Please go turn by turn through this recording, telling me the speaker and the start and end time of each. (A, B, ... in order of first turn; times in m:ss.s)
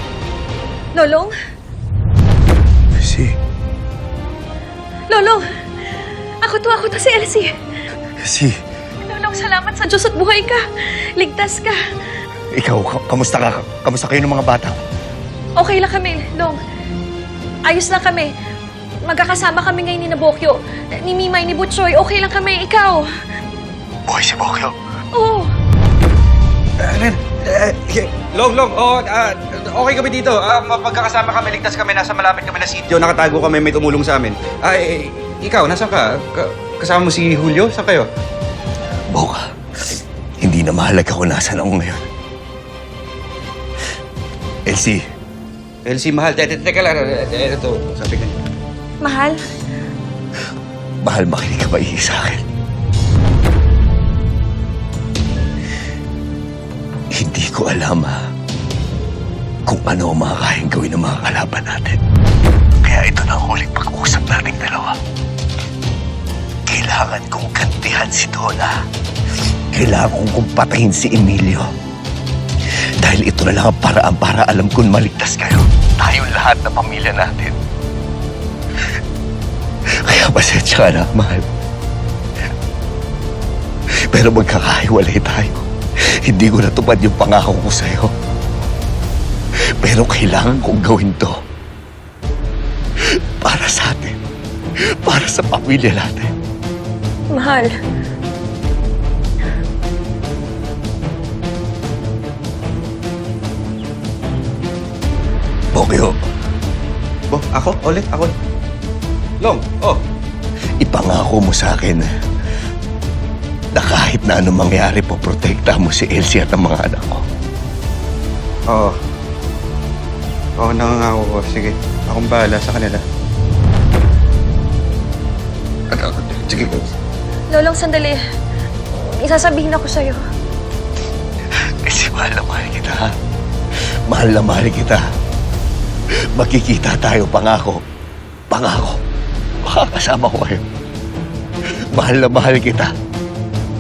0:00.9-0:01.3 A
0:03.0-0:03.3 B
0:05.1-0:05.4 A
0:06.4-0:07.5 A
0:08.2-0:08.5 B
0:09.0-0:11.8 A
0:12.5-0:14.8 B
0:15.6-0:16.6 A
0:17.7-0:18.3 A
0:19.0-0:23.1 A
0:24.1-0:24.7 B
0:25.1-0:25.5 A
0:26.8-0:38.1 C
0:39.1-0:42.0 B
0:44.7-0:45.0 B
0:45.8-0:48.4 C
0:49.0-0:49.4 A
0:51.0-0:52.4 B
0:57.1-0:58.2 B
0:59.6-1:02.0 B
1:02.8-1:05.0 B
1:06.7-1:08.7 B
1:09.4-1:11.7 B
1:12.7-1:17.6 B
1:20.0-1:21.4 B
1:24.1-1:28.1 B
1:29.8-1:31.3 B
1:33.0-1:34.2 B
1:35.0-1:36.3 B
1:37.3-1:37.7 A
1:45.7-1:46.2 B
1:47.3-1:48.3 C
1:49.4-1:50.0 C
1:50.8-1:52.1 B
1:53.8-1:57.2 B
1:58.7-1:59.0 C
2:00.6-2:03.0 C
2:05.9-2:06.9 C
2:07.5-2:08.2 A
2:08.9-2:10.2 A
2:11.5-2:13.1 B
2:14.1-2:15.0 B
2:16.3-2:17.8 B
2:18.5-2:19.0 B
2:19.6-2:20.6 B
2:21.9-2:22.9 B